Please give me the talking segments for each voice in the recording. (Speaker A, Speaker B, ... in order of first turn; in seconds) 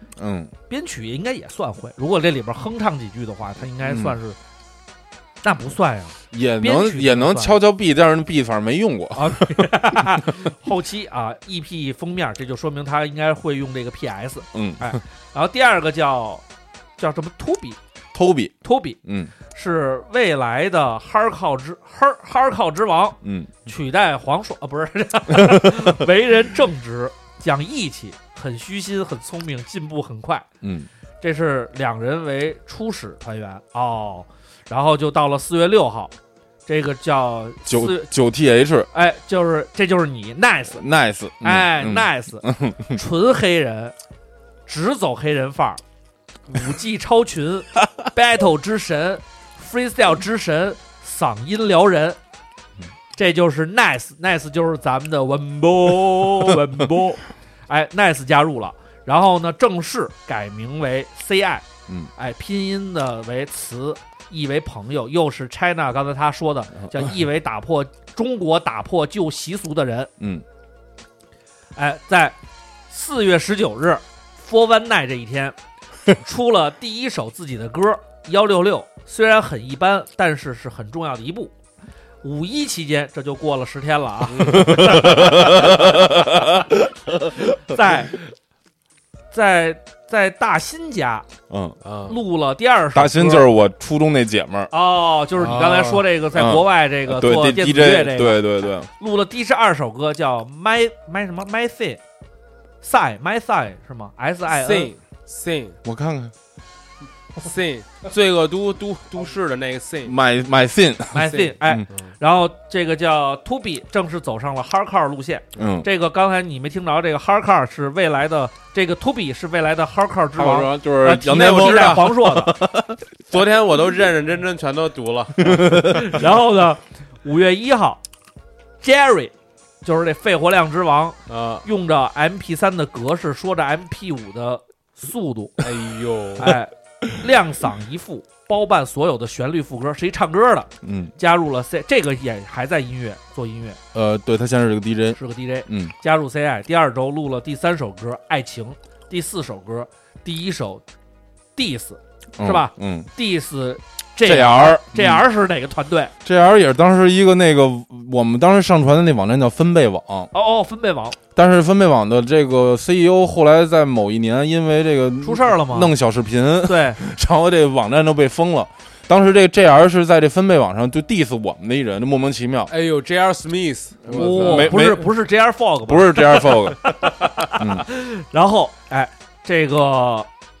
Speaker A: 0.1-0.5, 3.8-4.2, 6.3-10.0, 14.5-15.0, 18.1-19.3, 23.2-23.6, 25.3-25.9, 30.6-30.9, 37.6-38.9, 40.7-43.0, 66.8-67.1, 70.2-70.4, 84.4-86.9, 91.5-91.8, 92.9-94.7, 96.3-98.9, 105.8-106.3, 110.0-111.8, 115.5-115.9, 120.3-123.0, 125.4-126.2, 140.8-141.1, 143.9-145.9, 152.4-153.1, 154.2-155.2, 156.2-160.3, 161.3-172.7, 174.0-175.1, 175.9-176.8, 177.6-177.8
Speaker B: 0.7-4.4, 5.4-7.6, 9.1-16.4, 17.0-17.8, 18.6-19.0, 19.5-30.5, 31.2-36.1, 36.6-38.1, 38.9-40.8, 41.4-43.9, 44.7-45.8, 46.5-52.2, 53.1-70.1, 71.8-72.4, 72.9-75.5, 76.1-81.5, 82.2-85.5, 87.7-88.2, 89.3-91.3, 92.1-93.5, 94.7-102.0, 102.8-104.9, 111.1-122.5, 125.9-128.0, 128.8-135.6, 136.3-143.8, 145.2-150.8, 151.5-156.1, 160.3-161.2, 165.2-165.9, 166.7-167.0, 174.1-180.3
Speaker C: 91.8-92.2, 95.4-96.0, 104.5-105.8, 107.4-110.2, 111.2-112.1, 121.3-122.1, 123.3-125.6, 131.3-131.6, 135.6-136.5, 172.7-174.8